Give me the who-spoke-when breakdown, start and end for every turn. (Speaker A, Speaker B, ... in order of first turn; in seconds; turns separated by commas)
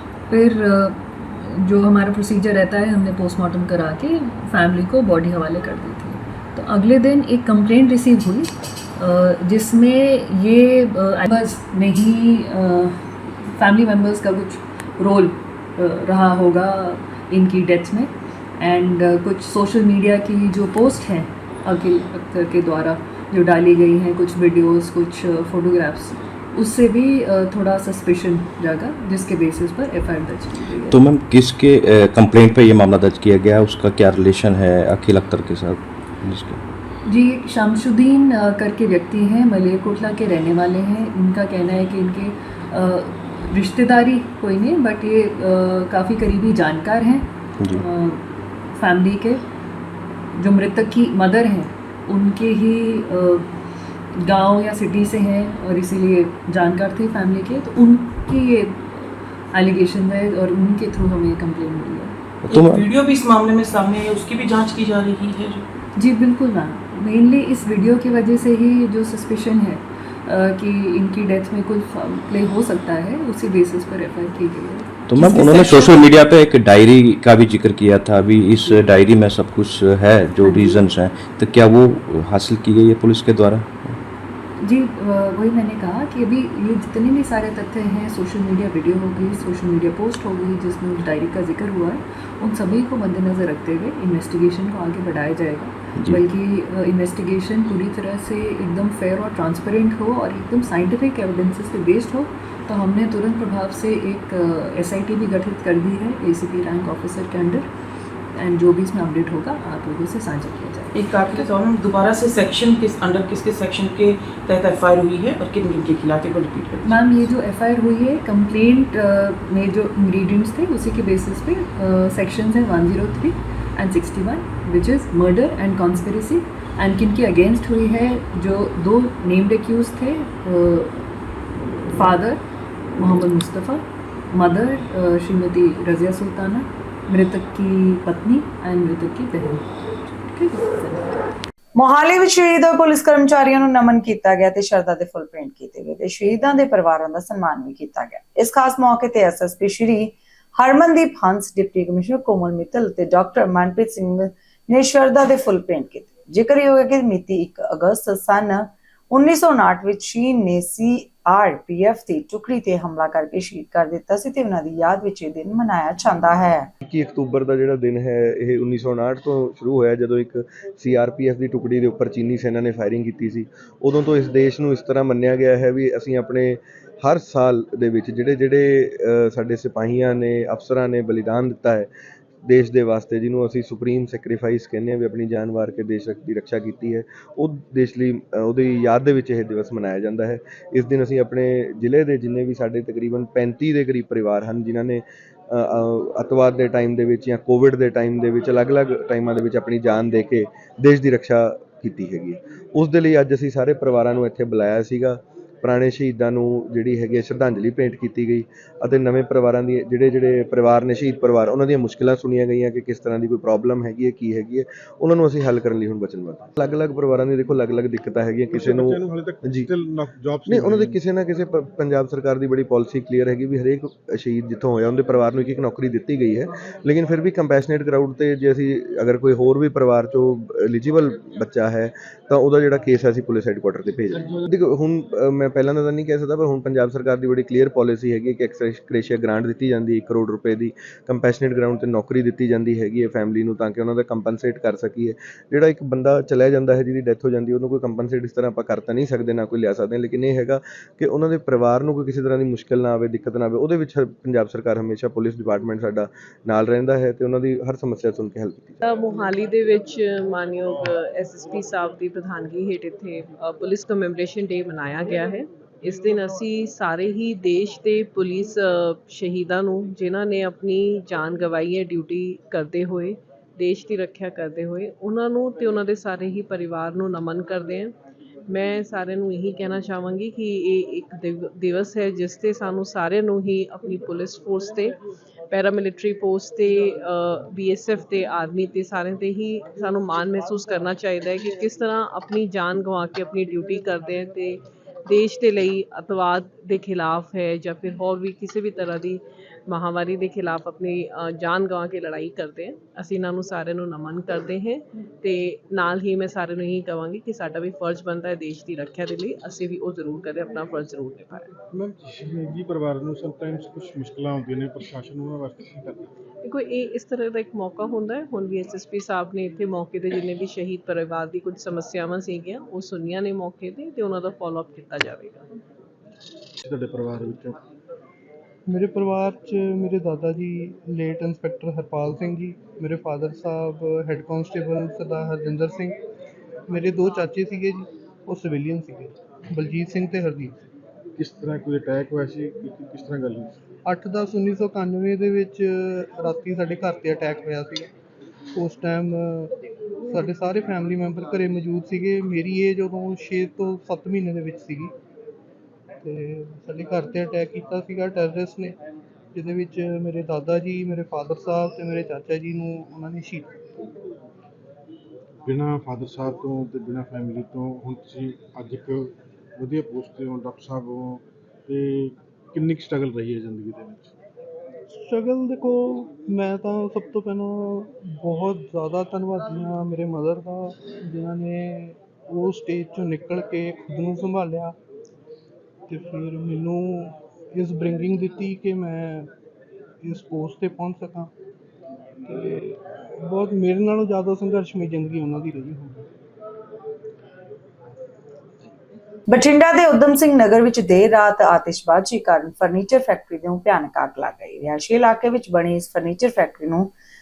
Speaker A: 0.3-31.0, Speaker B: 30.9-36.6, Speaker A: 37.0-49.4, Speaker A: 50.3-53.5, Speaker A: 54.1-62.1, Speaker B: 62.4-62.9, Speaker C: 62.5-65.6, Speaker A: 66.0-76.0, Speaker B: 75.1-84.0, Speaker A: 80.4-80.8, Speaker A: 84.6-107.7, Speaker A: 108.3-110.9, Speaker C: 110.9-117.0, Speaker A: 116.8-131.1, Speaker A: 131.9-132.4, Speaker A: 132.9-141.3, Speaker D: 141.8-166.7, Speaker E: 166.8-181.9, Speaker E: 182.5-219.7, Speaker F: 218.5-221.0, Speaker E: 220.4-258.8, Speaker G: 258.8-277.9, Speaker G: 278.5-284.9, Speaker G: 285.5-311.5, Speaker F: 311.7-316.1, Speaker G: 316.4-325.4, Speaker F: 326.6-327.6, Speaker H: 328.7-336.0, Speaker H: 336.7-340.6, Speaker F: 341.2-343.5, Speaker H: 343.9-347.9, Speaker H: 348.6-349.5, Speaker H: 350.1-354.9, Speaker H: 356.0-358.8, Speaker H: 359.3-363.6, Speaker F: 365.4-374.1, Speaker H: 374.9-384.7, Speaker H: 385.9-389.3, Speaker H: 390.0-391.3, Speaker H: 392.2-396.1, Speaker D: 399.3-406.9